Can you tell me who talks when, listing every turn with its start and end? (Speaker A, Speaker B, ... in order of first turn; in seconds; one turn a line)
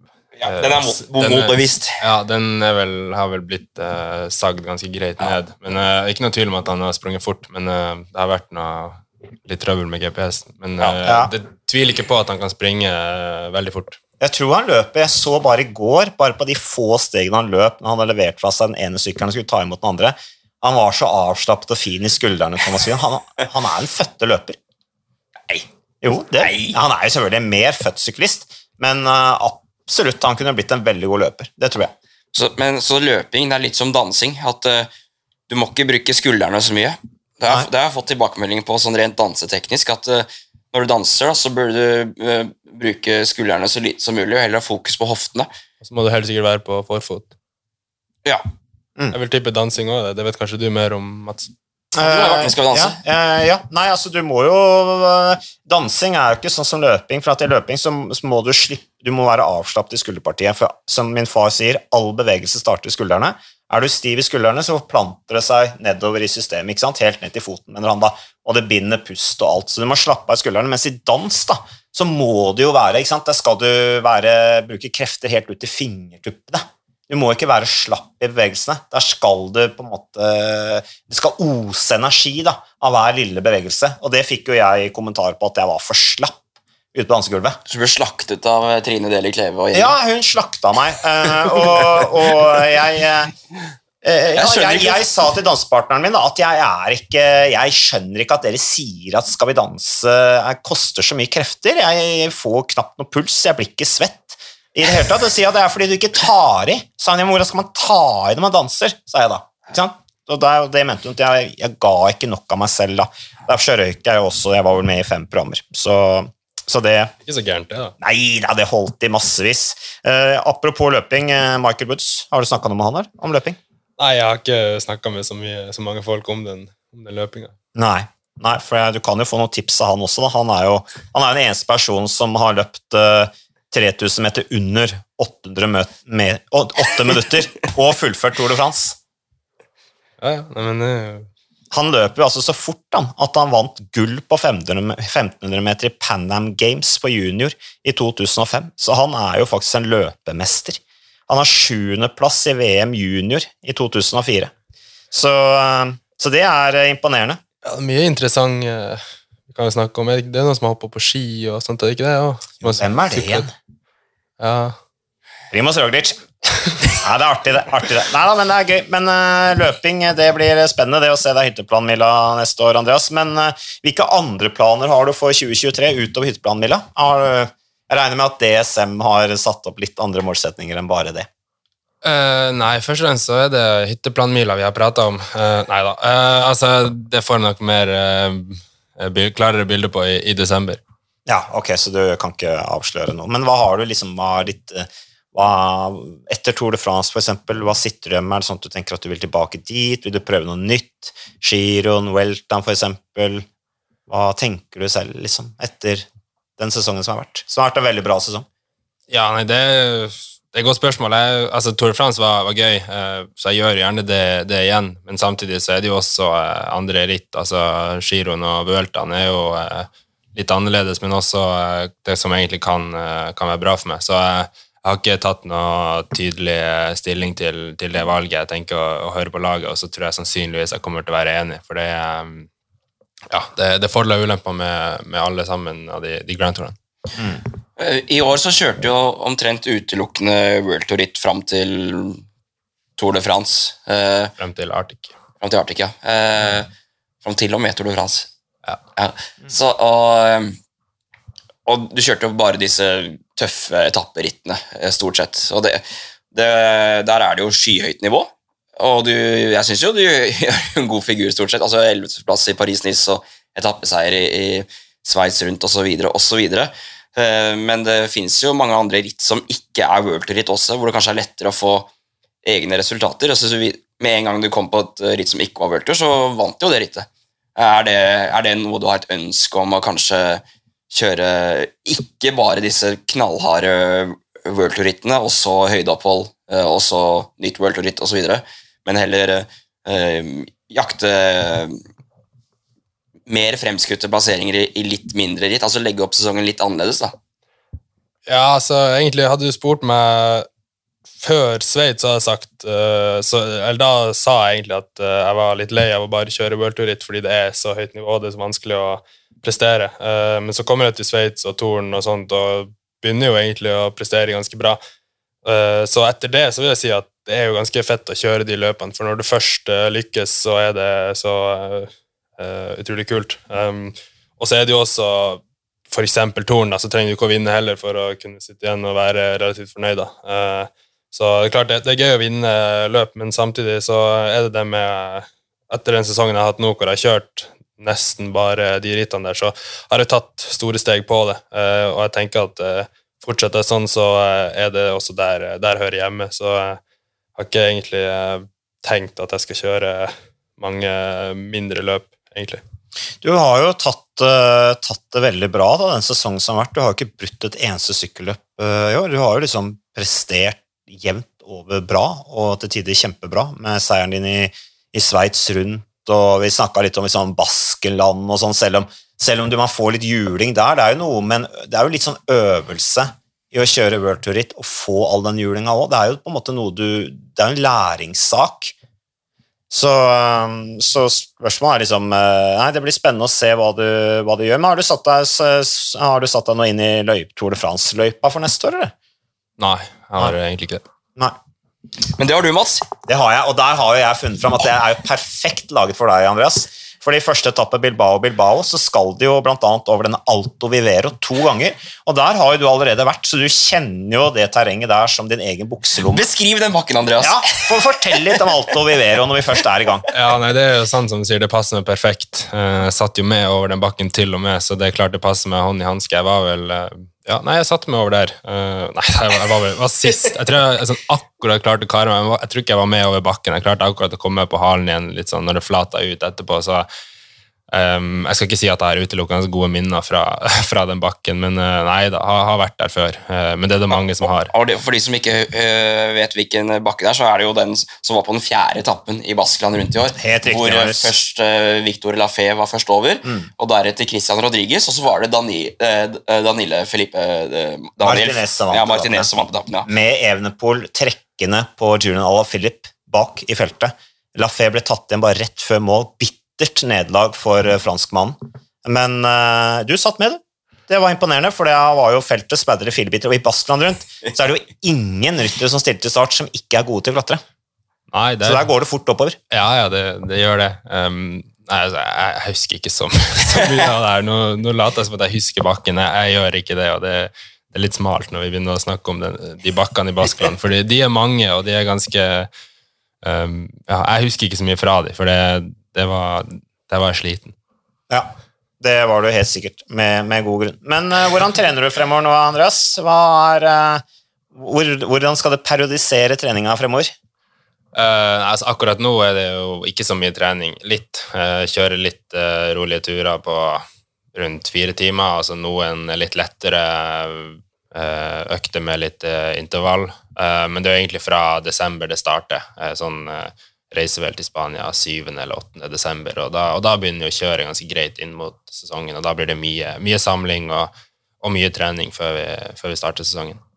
Speaker A: 0.4-1.9
Speaker B: 0.4-14.0
Speaker C: 11.0-11.3
Speaker C: 14.2-24.6
Speaker C: 26.0-31.9
Speaker A: 26.2-26.8
Speaker A: 32.3-34.9
Speaker A: 35.5-45.5
Speaker B: 45.8-47.3
Speaker B: 49.1-51.5
Speaker C: 51.9-86.4
Speaker A: 52.0-53.0
Speaker C: 86.9-87.6
Speaker A: 87.7-89.9
Speaker C: 89.7-93.3
Speaker C: 94.0-117.1
Speaker A: 94.3-95.0
Speaker B: 117.2-117.9
Speaker C: 118.0-123.6
Speaker B: 124.0-127.5
Speaker C: 127.7-138.9
Speaker B: 140.2-141.3
Speaker C: 141.7-154.5
Speaker C: 155.1-157.4
Speaker B: 157.6-163.5
Speaker C: 162.7-163.5
Speaker B: 164.4-164.8
Speaker C: 165.5-181.3
Speaker B: 182.0-190.8
Speaker C: 191.2-203.4
Speaker C: 204.1-206.1
Speaker C: 206.6-208.4
Speaker B: 209.1-232.5
Speaker B: 233.3-236.8
Speaker A: 237.8-242.2
Speaker A: 243.0-244.3
Speaker B: 244.4-245.1
Speaker A: 245.4-246.7
Speaker A: 247.2-248.3
Speaker A: 248.9-250.6
Speaker A: 251.7-271.9
Speaker A: 272.4-291.8
Speaker A: 293.3-297.1
Speaker B: 298.3-300.5
Speaker B: 301.2-314.8
Speaker B: 315.4-346.8
Speaker B: 347.4-352.6
Speaker C: 353.2-378.7
Speaker C: 379.7-388.9
Speaker B: 389.6-390.8
Speaker A: 392.1-392.9
Speaker C: 393.1-406.3
Speaker A: 406.0-407.7
Speaker C: 407.2-410.1
Speaker B: 410.1-426.9
Speaker B: 427.7-434.5
Speaker A: 433.9-449.9
Speaker C: 440.2-441.1
Speaker C: 448.0-449.3
Speaker C: 449.9-467.4
Speaker B: 468.1-468.7
Speaker C: 468.4-469.4
Speaker B: 469.5-482.5
Speaker B: 483.2-487.5
Speaker C: 488.1-497.1
Speaker B: 497.9-523.6